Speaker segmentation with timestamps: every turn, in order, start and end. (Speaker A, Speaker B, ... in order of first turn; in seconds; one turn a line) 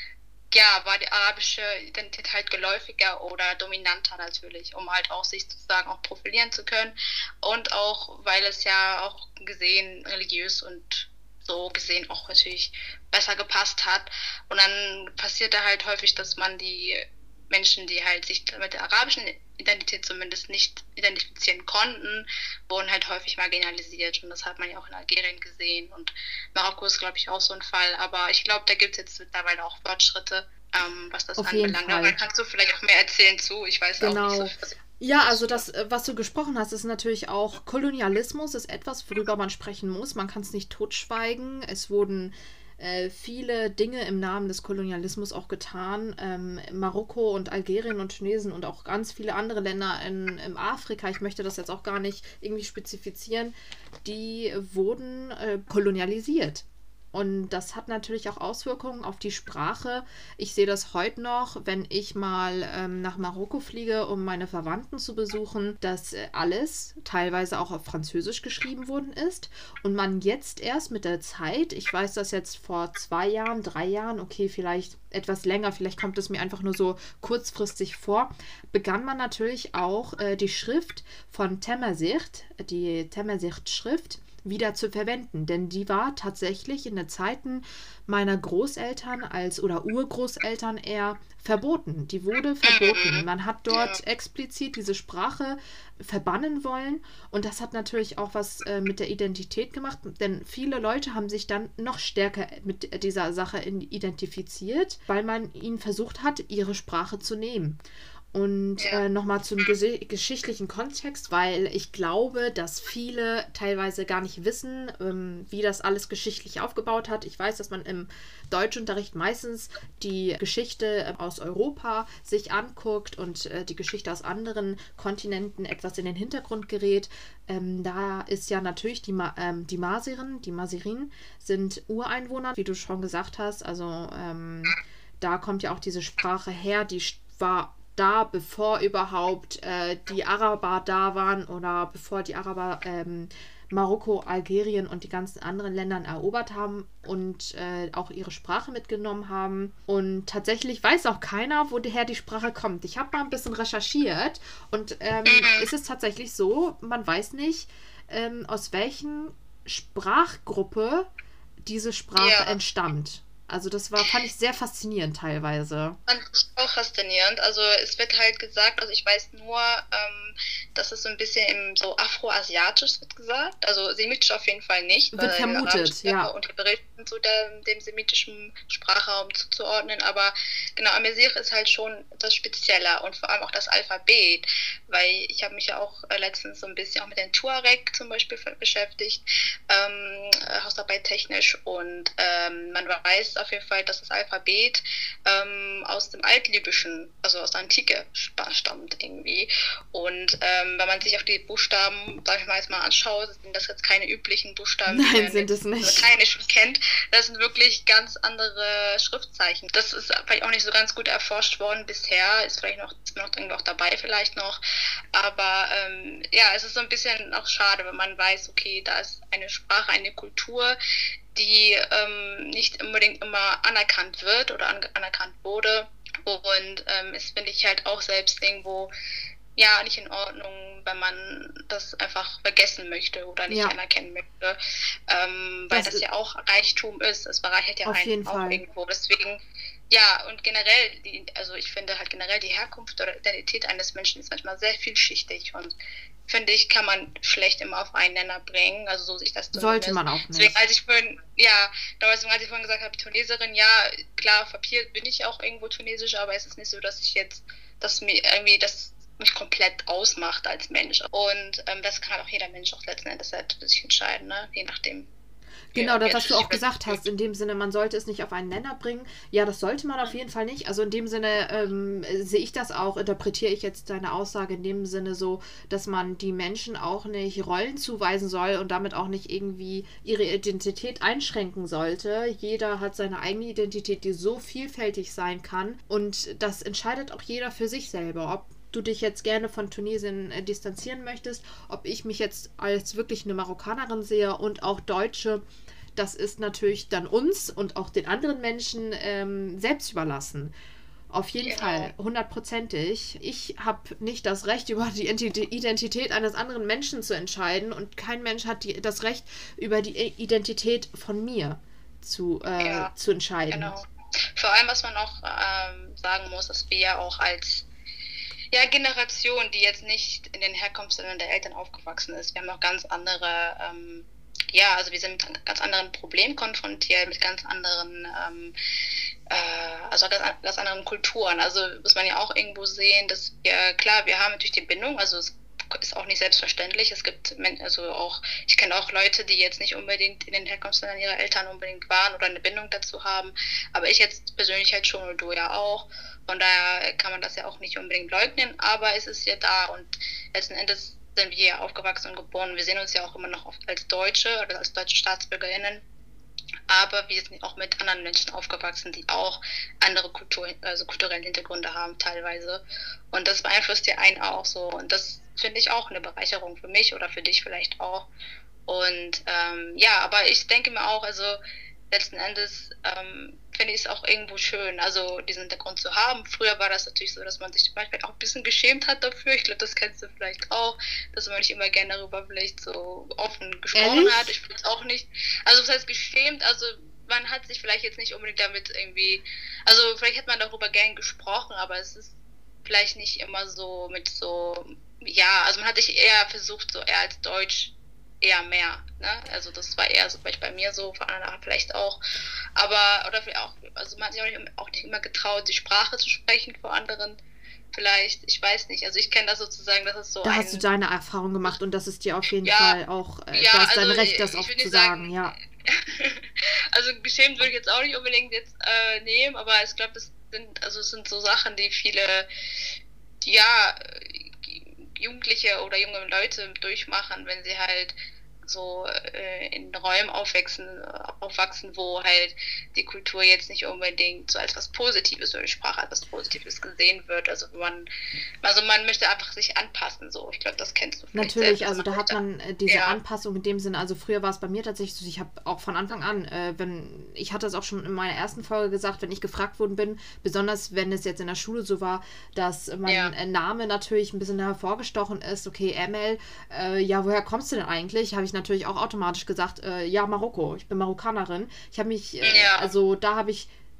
Speaker A: 0.5-35.6
Speaker B: 31.4-32.1
Speaker B: 34.0-107.8
Speaker A: 92.6-94.0
Speaker B: 108.3-161.1
Speaker A: 155.2-155.7
Speaker B: 161.6-166.0
Speaker A: 162.2-162.6
Speaker A: 166.1-214.6
Speaker B: 175.1-176.3
Speaker B: 204.9-206.1
Speaker A: 215.1-220.8
Speaker A: 221.3-228.9
Speaker A: 229.6-234.6
Speaker B: 233.5-233.8
Speaker A: 235.1-245.7
Speaker B: 235.7-236.0
Speaker B: 237.9-238.6
Speaker A: 246.3-265.1
Speaker B: 249.5-250.6
Speaker B: 265.7-295.4
Speaker A: 265.7-267.0
Speaker B: 295.9-300.5
Speaker B: 301.1-313.7
Speaker A: 301.4-301.9
Speaker A: 312.6-312.9
Speaker A: 313.5-313.9
Speaker A: 314.4-317.6
Speaker A: 318.5-328.5
Speaker A: 329.3-355.8
Speaker A: 356.7-368.1
Speaker A: 368.7-371.4
Speaker A: 371.9-392.1
Speaker B: 383.7-384.3
Speaker A: 392.6-402.0
Speaker A: 402.6-407.2
Speaker A: 407.7-410.6
Speaker B: 410.2-415.4
Speaker A: 412.4-412.8
Speaker A: 413.3-415.1
Speaker A: 415.7-422.3
Speaker A: 423.2-437.9
Speaker A: 438.4-443.0
Speaker B: 441.1-463.5
Speaker A: 452.9-453.1
Speaker A: 462.2-462.7